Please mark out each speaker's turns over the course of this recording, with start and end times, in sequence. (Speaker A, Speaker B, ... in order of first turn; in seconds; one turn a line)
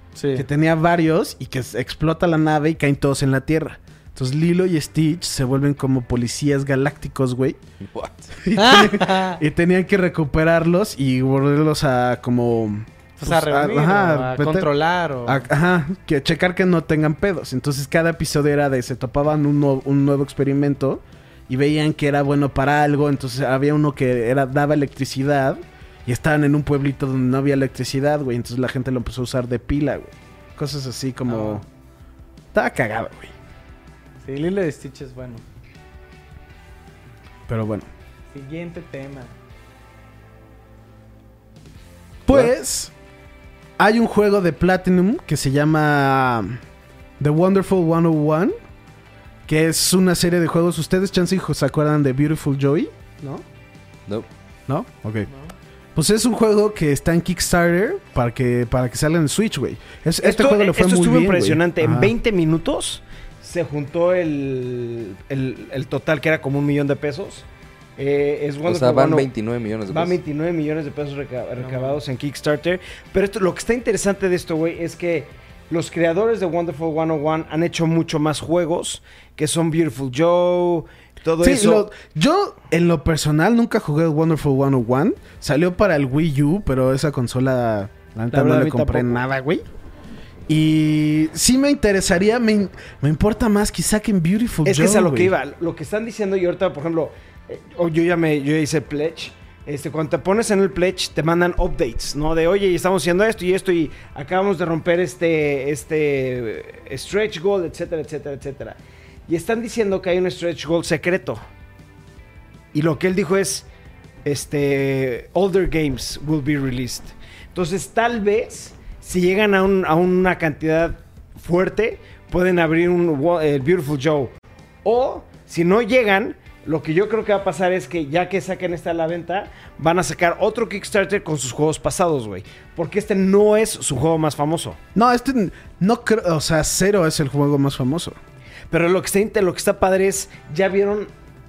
Speaker A: 0.2-0.5
Speaker B: 0.3-7.6
Speaker C: 7.9-8.3
Speaker B: 8.3-14.7
Speaker A: 8.6-9.4
Speaker A: 13.2-15.4
Speaker B: 15.2-31.6
Speaker A: 31.3-31.6
Speaker B: 32.5-33.3
Speaker A: 34.2-35.4
Speaker B: 37.5-37.9
Speaker A: 38.3-39.3
Speaker B: 42.3-42.9
Speaker B: 43.8-46.6
Speaker B: 47.2-48.5
Speaker B: 49.5-53.5
Speaker B: 54.7-55.3
Speaker B: 56.0-62.1
Speaker D: 60.2-67.5
Speaker D: 68.0-69.3
Speaker C: 68.7-70.2
Speaker D: 69.9-81.9
Speaker A: 71.6-72.0
Speaker B: 81.4-89.7
Speaker D: 88.3-89.2
Speaker B: 90.5-95.3
Speaker D: 94.6-111.4
Speaker D: 112.7-113.7
Speaker D: 114.2-134.8
Speaker B: 134.9-138.2
Speaker D: 138.7-141.1